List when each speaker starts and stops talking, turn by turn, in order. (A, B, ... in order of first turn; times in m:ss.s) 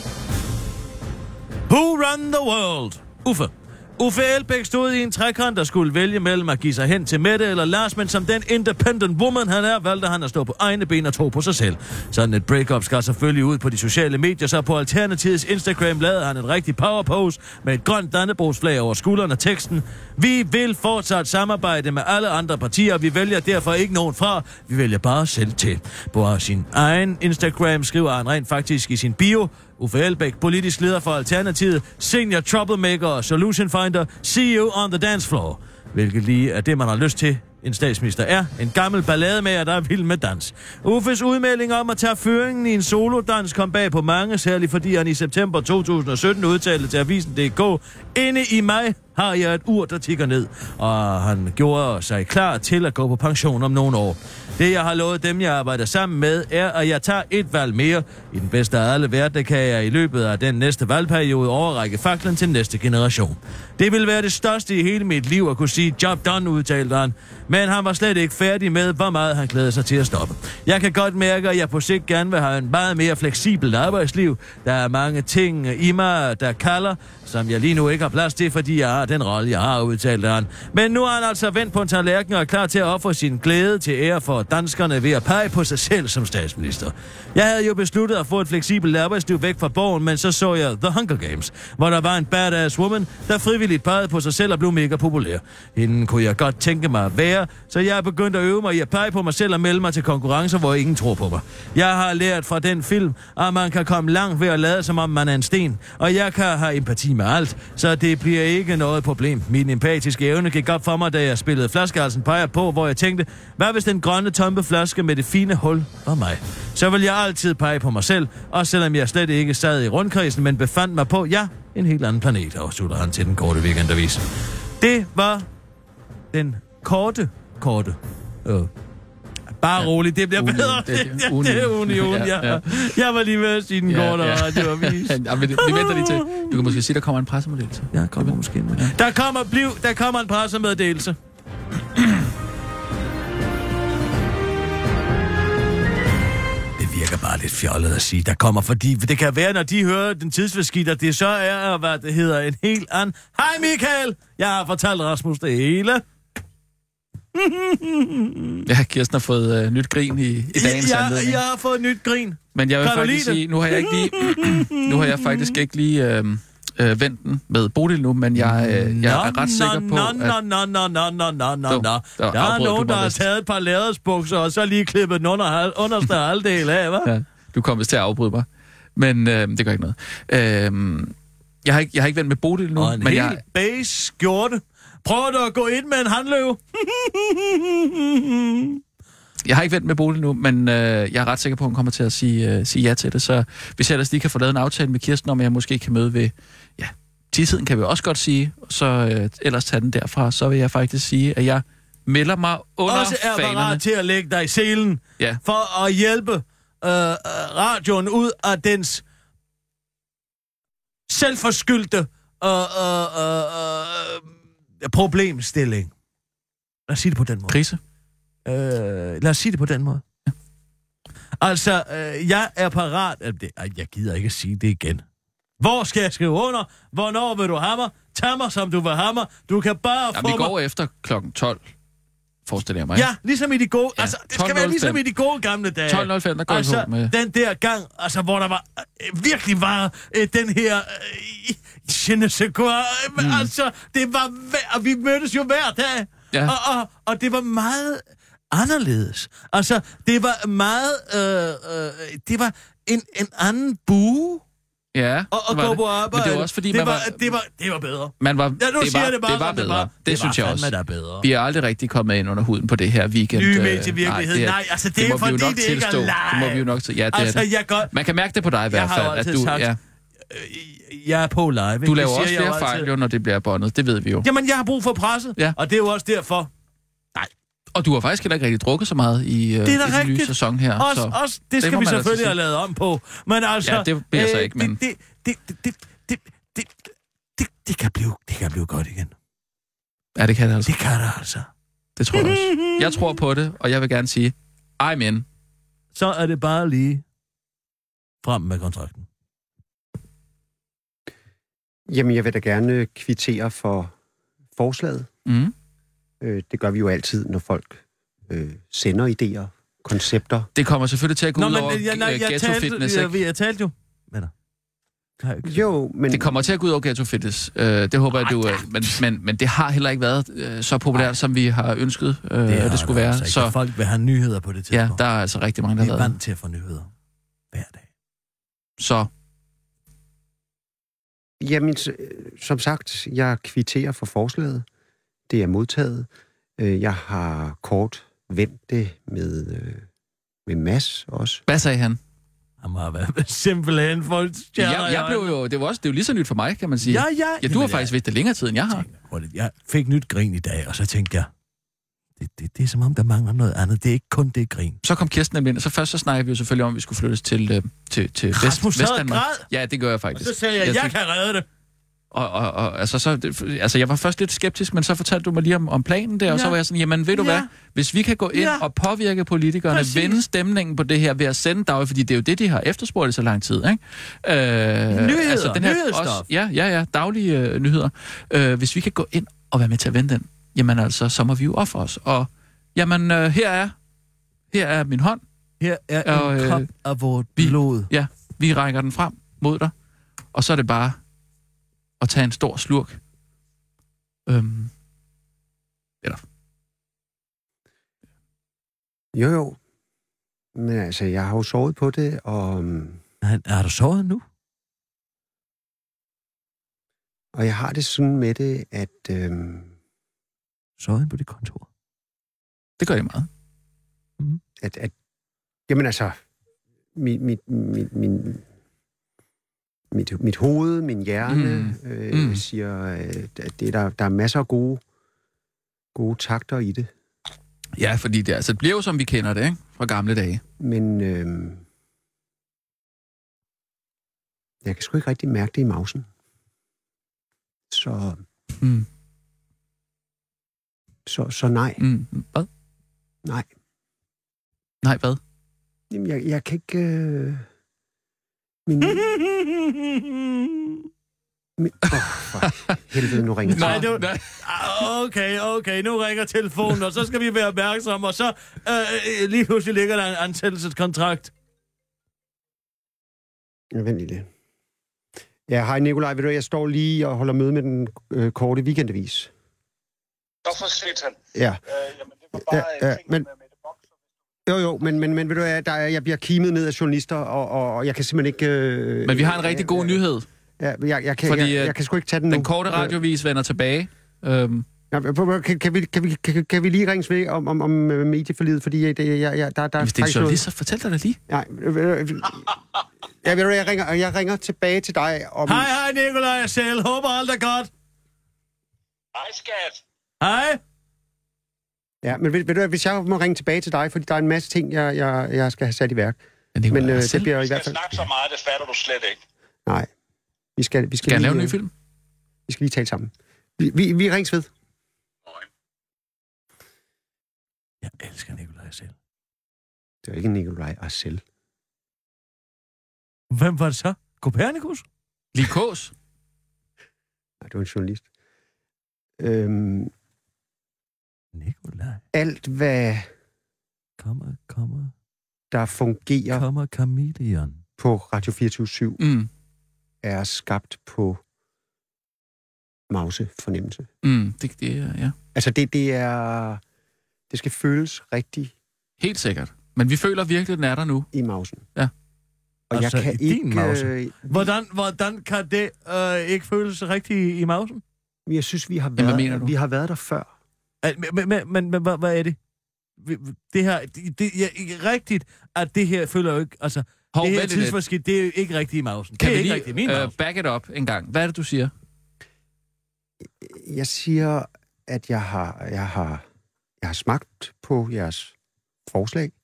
0:01.7-2:04.2 A
2:04.8-2:05.5 A
2:06.3-2:08.7 A
2:09.6-2:16.8 A
2:09.8-2:12.9 B
2:13.9-2:18.9 B
2:17.9-2:21.1 A
2:26.8-2:36.0 A
2:37.4-2:38.3 A
2:38.6-2:41.4 B
2:40.5-2:45.5 A
2:42.5-2:50.4 B
2:48.4-2:57.1 A
2:51.7-2:53.2 B
2:57.0-3:03.4 B
3:02.8-3:08.7 A
3:09.4-3:23.8 B
3:22.9-3:29.0 A
3:31.1-3:34.2 A
3:34.8-3:35.9 A
3:36.9-3:37.6 A
3:37.5-3:37.8 B
3:38.4-3:40.0 A
3:41.4-3:45.0 A
3:45.6-3:50.5 A
3:50.1-3:51.6 B
3:52.4-3:53.1 B
3:52.9-4:14.4 A
3:54.0-3:55.0 B
3:55.9-3:57.1 B
4:03.2-4:03.5 B
4:14.9-4:17.3 B
4:15.3-4:21.2 A
4:18.2-4:29.8 B
4:23.3-4:27.9 A
4:28.7-4:29.7 A
4:30.3-4:32.9 A
4:31.8-4:34.3 B
4:34.2-4:36.5 A
4:37.7-4:42.3 B
4:39.6-4:46.7 A
4:43.6-4:44.8 B
4:47.4-4:49.1 A
4:50.2-4:50.7 B
4:50.6-4:51.5 A
4:52.0-4:55.2 B
4:52.1-4:53.0 A
4:55.9-4:57.0 A
4:58.2-4:59.0 A
5:01.9-5:03.9 C
5:04.6-5:05.1 C
5:05.2-5:05.5 B
5:06.2-5:10.5 C
5:10.6-5:13.2 B
5:11.4-5:14.3 A
5:15.2-5:15.6 A
5:15.4-5:16.4 C
5:16.1-5:23.6 B
5:18.2-5:18.6 A
5:22.5-5:25.0 A
5:24.7-5:26.2 B
5:25.8-5:26.9 A
5:27.5-5:27.8 A
5:28.8-5:29.1 B
5:31.4-5:34.6 C
5:35.3-5:39.8 C
5:40.4-5:41.4 C
5:41.5-5:42.0 B
5:42.6-5:45.4 A
5:44.6-5:48.8 B
5:46.8-5:48.0 A
5:48.7-5:51.3 A
5:52.2-5:54.8 A
5:54.8-6:00.9 B
5:58.3-5:59.4 A
6:00.2-6:01.4 A
6:02.1-6:23.7 B
6:06.3-6:06.6 A
6:07.1-6:07.5 A
6:08.3-6:08.6 A
6:09.7-6:10.2 A
6:14.9-6:16.2 A
6:24.5-6:25.2 B
6:25.6-6:27.9 A
6:26.0-6:26.7 B
6:27.4-6:29.7 B
6:30.3-6:31.0 B
6:32.0-6:33.0 B
6:34.3-6:34.7 B
6:39.1-6:39.6 C
6:40.5-6:43.0 C
6:43.2-6:44.2 A
6:47.3-6:49.7 C
6:50.8-6:51.6 A
6:52.8-6:53.3 B
6:54.6-6:54.9 C
6:55.7-6:56.2 C
6:56.9-6:58.4 C
6:59.9-7:04.8 C
7:01.3-7:02.4 B
7:05.9-7:06.9 C
7:07.8-7:10.4 B
7:10.6-7:11.6 C
7:14.6-7:16.1 C
7:17.7-7:18.2 C
7:18.6-7:18.8 B
7:21.0-7:21.8 C
7:21.8-7:22.5 B
7:24.8-7:25.2 B
7:25.9-7:27.4 C
7:28.7-7:29.1 C
7:28.8-7:30.7 A
7:31.6-7:34.0 C
7:31.9-7:32.7 B
7:33.5-7:34.3 B
7:33.5-7:41.3 A
7:43.7-7:44.3 C
7:45.5-7:49.3 C
7:50.4-7:51.2 D
7:51.3-7:51.6 C
7:52.3-7:52.8 D
7:52.3-7:53.3 C
7:54.5-8:00.0 C
7:59.0-8:00.2 B
8:00.6-8:03.0 C
8:01.2-8:01.7 B
8:02.3-8:04.6 B
8:04.9-8:10.4 C
8:09.8-8:11.2 B
8:11.3-8:12.6 C
8:13.2-8:15.7 C
8:15.4-8:17.7 A
8:19.1-8:19.8 D
8:20.2-8:20.6 A
8:22.0-8:27.8 C
8:26.5-8:27.3 B
8:27.4-8:29.2 D
8:30.6-8:31.6 C
8:31.0-8:31.7 B
8:32.5-8:34.5 C
8:37.8-8:38.9 A
8:40.0-8:41.2 C
8:43.3-8:44.8 A
8:45.3-8:45.9 B
8:47.4-8:48.0 C
8:49.2-8:49.9 C
8:51.3-8:52.0 A
8:52.1-8:53.1 C
8:54.0-8:54.9 A
8:55.5-8:56.5 C
8:56.3-8:57.6 A
8:57.8-8:59.0 C
8:59.0-8:59.3 B
9:00.0-9:01.2 C
9:02.9-9:03.9 C
9:04.0-9:05.1 B
9:05.3-9:06.6 C
9:07.3-9:08.5 C
9:09.0-9:11.1 B
9:11.1-9:11.6 C
9:12.7-9:14.5 C
9:12.7-9:17.8 A
9:18.3-9:20.3 C
9:19.0-9:19.5 B
9:20.8-9:22.4 A
9:23.0-9:30.1 A
9:27.1-9:27.8 B
9:29.2-9:31.7 B
9:33.4-9:36.2 C
9:36.8-9:38.3 C
9:38.9-9:39.3 C